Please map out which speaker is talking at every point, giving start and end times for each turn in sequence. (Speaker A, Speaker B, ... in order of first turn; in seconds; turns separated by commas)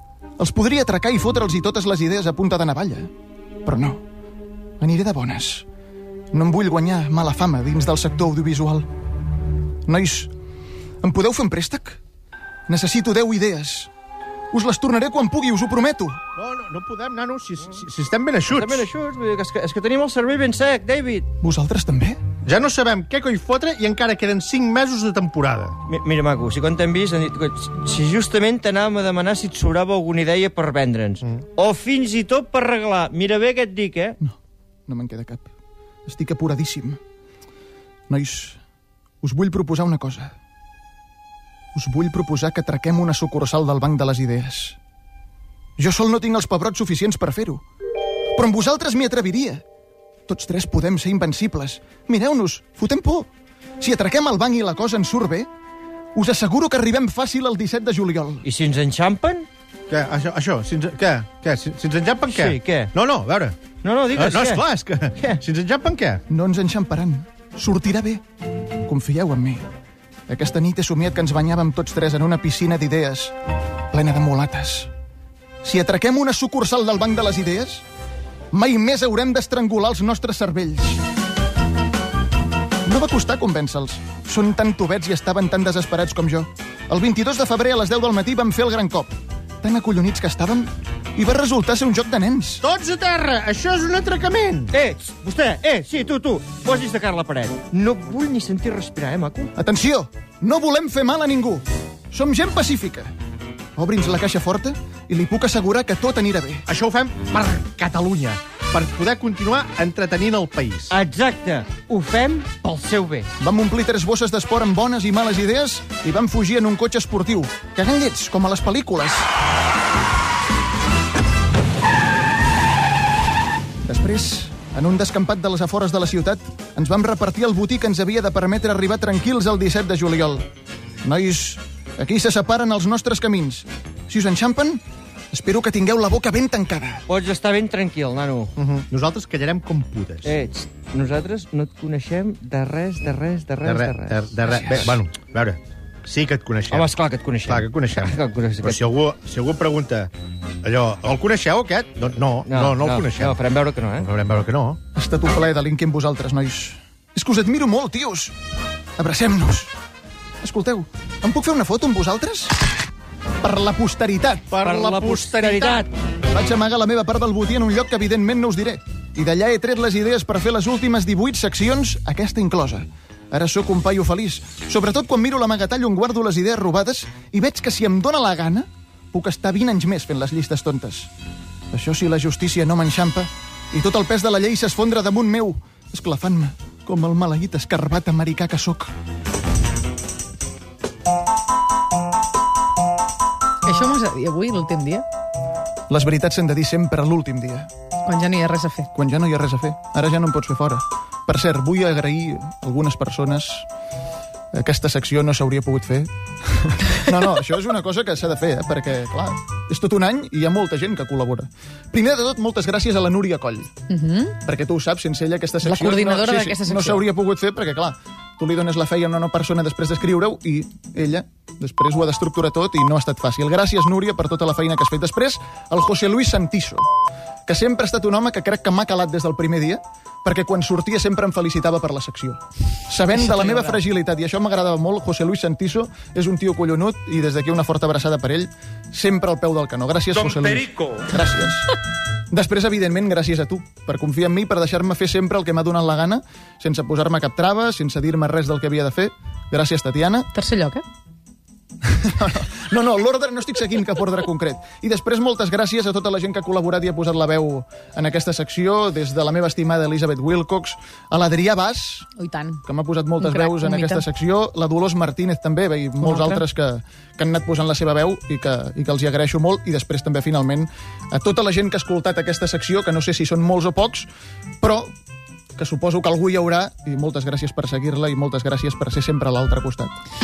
Speaker A: 0.4-3.1, Speaker A: 3.7-4.0, Speaker A: 4.8-5.7, Speaker A: 6.3-8.9, Speaker A: 9.9-10.3, Speaker A: 11.0-12.0, Speaker A: 12.7-13.9, Speaker A: 14.5-16.2, Speaker B: 16.4-18.9, Speaker C: 18.5-21.3, Speaker A: 21.4-22.2, Speaker B: 22.4-25.8, Speaker C: 25.9-34.2, Speaker A: 34.9-35.5, Speaker A: 36.1-37.0, Speaker A: 38.1-38.6, Speaker A: 39.2-40.4, Speaker A: 41.8-44.8, Speaker A: 45.8-47.6, Speaker A: 48.4-49.6, Speaker A: 50.3-53.3, Speaker A: 53.8-55.5, Speaker A: 56.1-58.5, Speaker C: 58.4-59.5, Speaker B: 59.9-63.6, Speaker C: 62.3-62.9, Speaker C: 63.8-64.7, Speaker B: 64.1-66.2, Speaker A: 66.3-68.2, Speaker A: 68.9-69.7, Speaker A: 70.3-73.3, Speaker A: 73.9-74.9, Speaker A: 75.6-77.8, Speaker A: 78.5-81.0, Speaker A: 82.8-92.6, Speaker B: 92.6-94.7, Speaker C: 94.7-99.5, Speaker A: 99.6-103.1, Speaker A: 103.8-106.7, Speaker B: 106.7-111.0, Speaker C: 110.9-113.3, Speaker A: 113.4-119.3, Speaker A: 123.8-130.4, Speaker A: 131.0-137.1, Speaker C: 137.1-138.5, Speaker B: 138.6-140.3, Speaker C: 140.2-145.0, Speaker B: 143.6-146.9, Speaker C: 146.7-148.9, Speaker B: 147.4-150.1, Speaker B: 150.6-153.4, Speaker C: 152.5-154.1, Speaker B: 153.9-154.8, Speaker A: 154.9-158.3, Speaker A: 159.0-159.7, Speaker A: 160.4-162.6, Speaker A: 163.4-164.5, Speaker B: 164.5-165.9, Speaker C: 164.6-165.9, Speaker A: 166.3-181.1, Speaker A: 181.7-188.9, Speaker D: 193.7-195.1, Speaker A: 195.9-197.7, Speaker D: 198.1-198.9, Speaker A: 198.9-203.7, Speaker A: 204.5-213.7, Speaker D: 213.9-214.4, Speaker A: 214.4-226.9, Speaker D: 215.6-217.0, Speaker A: 227.5-241.7, Speaker D: 233.2-233.8, Speaker A: 242.3-250.3, Speaker D: 250.3-250.8, Speaker A: 251.8-262.1, Speaker D: 262.2-262.6, Speaker A: 262.6-274.1, Speaker D: 263.2-264.1, Speaker D: 266.0-266.4, Speaker A: 274.6-274.9, Speaker A: 275.6-279.9